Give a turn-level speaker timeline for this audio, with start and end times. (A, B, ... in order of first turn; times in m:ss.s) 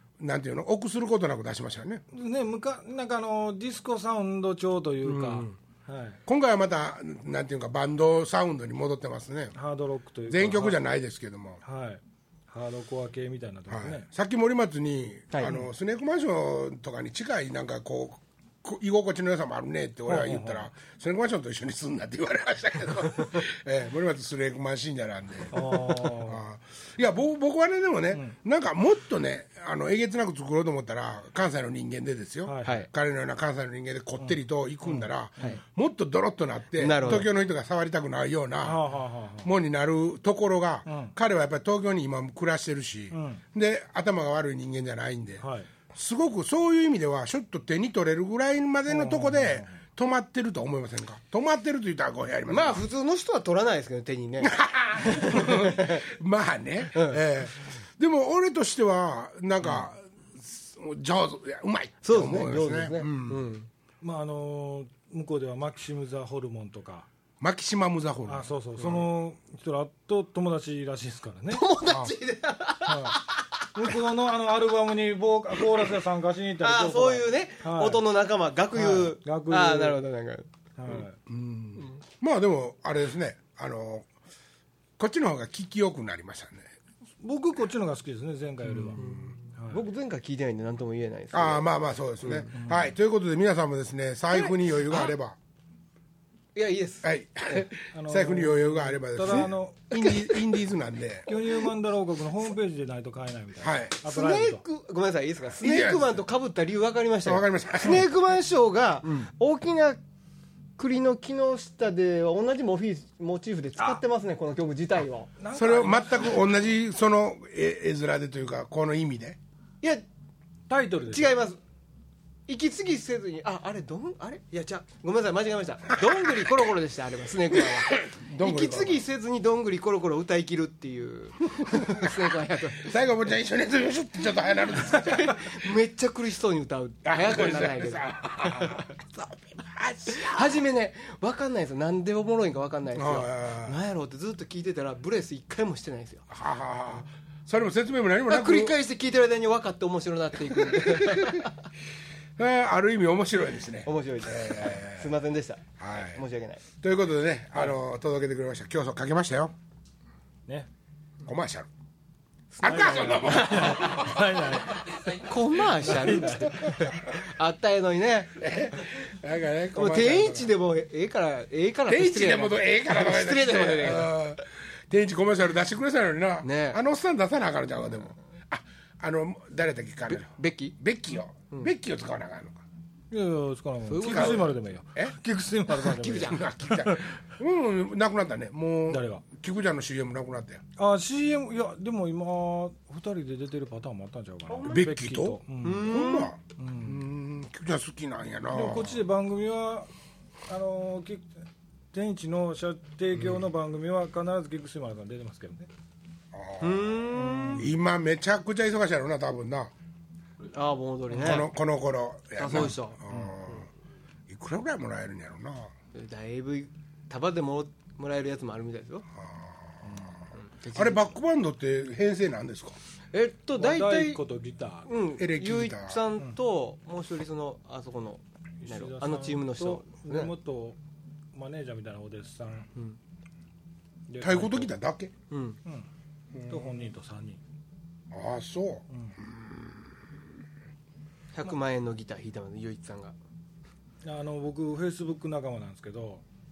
0:00.2-0:02.0 A
0:02.1-0:06.2 B
0:05.0-0:05.4 A
0:06.2-0:09.5 A
0:09.5-0:10.8 B
0:10.3-0:11.6 A
0:11.6-0:14.0 B
0:13.7-0:38.8 A
0:15.3-0:15.6 C
0:20.1-0:20.7 B
0:25.5-0:26.4 B
0:32.4-0:32.8 B
0:34.8-0:35.6 B
0:36.8-0:37.3 C
0:38.6-0:39.5 B
0:39.4-0:52.8 A
0:40.9-0:41.1 B
0:43.1-0:43.4 B
0:45.4-0:45.7 B
0:48.9-0:49.7 B
0:52.5-0:56.0 C
0:54.4-1:03.4 A
0:56.9-0:57.2 C
1:02.0-1:03.7 C
1:04.0-1:07.1 B
1:07.4-1:08.8 A
1:08.3-1:11.6 B
1:11.5-1:13.5 C
1:11.9-1:12.1 A
1:12.8-1:13.2 B
1:13.7-1:18.0 B
1:16.6-1:20.5 C
1:18.7-1:20.0 B
1:20.8-1:21.2 B
1:21.2-1:24.0 A
1:25.0-1:26.7 A
1:27.2-1:29.0 B
1:28.7-1:29.3 A
1:29.0-1:31.7 C
1:29.5-1:29.8 B
1:31.3-1:35.4 A
1:32.2-1:32.5 C
1:32.5-1:32.9 B
1:34.3-1:35.1 C
1:36.5-1:37.6 C
1:37.0-1:41.3 A
1:37.9-1:39.8 B
1:39.3-1:40.5 C
1:41.3-1:44.6 B
1:43.6-1:44.0 A
1:44.0-1:50.0 C
1:45.6-1:46.1 A
1:47.2-1:48.1 A
1:50.8-1:55.3 C
1:55.4-1:56.4 B
1:55.5-1:59.4 A
2:00.7-2:01.3 B
2:01.0-2:01.6 C
2:02.5-2:12.9 C
2:07.5-2:09.0 A
2:11.6-2:12.1 A
2:12.8-2:15.5 A
2:14.8-2:18.9 C
2:17.0-2:20.6 A
2:20.1-2:26.2 C
2:22.9-2:23.8 A
2:26.3-2:28.7 A
2:28.3-2:31.5 C
2:30.5-2:31.5 A
2:32.4-2:35.1 A
2:33.8-2:36.6 C
2:35.8-2:36.2 A
2:36.8-2:39.5 A
2:41.2-2:41.7 A
2:42.5-2:44.0 C
2:42.6-2:44.5 A
2:42.6-2:45.2 B
2:45.2-2:48.4 C
2:45.8-2:46.6 B
2:46.0-2:47.2 A
2:48.4-2:50.5 A
2:49.7-2:54.1 C
2:51.9-3:02.6 A
2:56.4-2:56.8 C
3:00.1-3:00.8 C
3:03.1-3:07.1 B
3:03.9-3:04.5 C
3:04.0-3:05.1 A
3:05.7-3:06.6 C
3:06.2-3:10.6 A
3:08.9-3:09.2 B
3:10.8-3:15.9 B
3:14.5-3:14.9 C
3:14.6-3:19.0 A
3:15.6-3:16.3 C
3:16.6-3:17.0 B
3:18.5-3:19.9 B
3:20.5-3:21.3 B
3:21.9-3:25.7 B
3:26.3-3:27.0 A
3:26.6-3:27.7 C
3:27.1-3:27.6 B
3:27.6-3:29.7 A
3:30.5-3:31.5 C
3:31.1-3:33.7 A
3:32.4-3:33.0 C
3:34.3-3:35.7 A
3:35.9-3:39.0 C
3:39.2-3:39.5 A
3:39.8-3:40.2 B
3:40.4-3:41.1 C
3:40.7-3:42.8 A
3:43.1-3:44.2 C
3:43.6-3:44.9 B
3:44.8-3:50.3 C
3:45.2-3:46.0 A
3:48.6-3:50.8 B
3:51.3-3:52.7 B
3:54.1-3:54.7 B
3:54.2-3:55.1 A
3:55.3-3:55.6 C
3:56.3-3:56.8 A
3:56.5-3:57.4 B
3:58.1-3:58.8 A
3:58.9-3:59.2 B
4:01.3-4:03.1 C
4:04.0-4:06.2 B